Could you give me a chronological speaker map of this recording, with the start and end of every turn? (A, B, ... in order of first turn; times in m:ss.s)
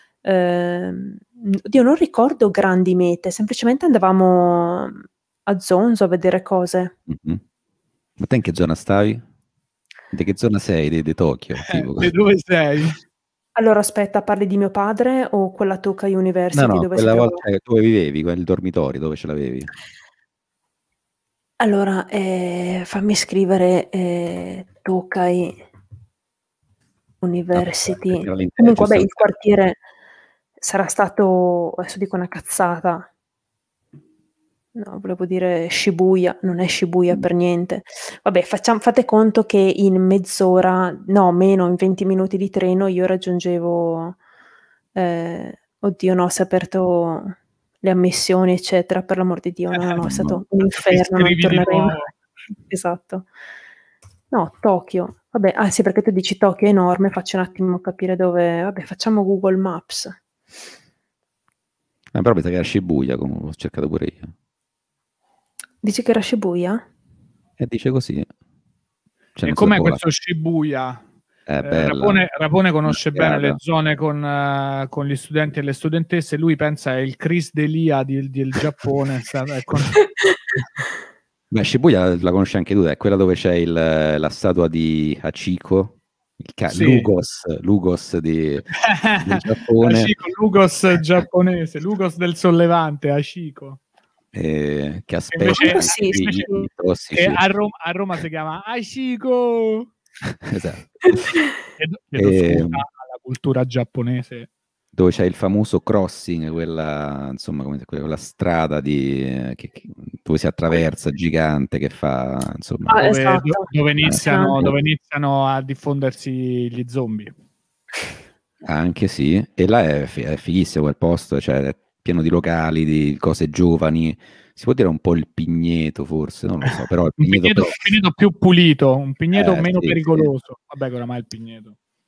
0:00.2-0:06.9 A
0:07.1-0:07.4 B
0:08.2-0:09.2 B
0:10.1-0:12.1 B
0:11.6-0:13.0 C
0:13.6-0:17.4 A
0:16.5-0:19.7 B
0:21.6-0:25.6 A
0:27.2-0:29.8 A
0:27.5-0:29.3 B
0:30.6-0:33.1 A
0:34.7-0:44.2 A
0:44.9-0:52.0 A
0:50.0-0:50.4 B
0:50.8-0:52.1 C
0:52.7-0:53.3 A
0:54.3-1:00.2 A
1:02.1-1:04.3 B
1:05.8-1:06.8 A
1:07.6-1:08.3 B
1:09.4-1:10.0 B
1:09.4-1:11.0 C
1:11.5-1:12.2 B
1:11.6-1:20.0 C
1:12.9-1:13.6 B
1:21.5-1:30.1 B
1:26.7-1:27.1 C
1:28.7-1:33.8 C
1:34.3-1:37.4 B
1:35.3-1:36.6 C
1:35.5-1:36.5 A
1:37.1-1:39.9 C
1:40.2-1:41.3 B
1:41.8-1:44.5 C
1:42.2-1:42.8 B
1:44.9-1:53.0 B
1:52.9-1:54.6 A
1:53.0-1:57.3 C
1:54.0-1:54.7 B
1:58.6-2:07.8 B
2:06.7-2:11.8 C
2:09.3-2:10.3 B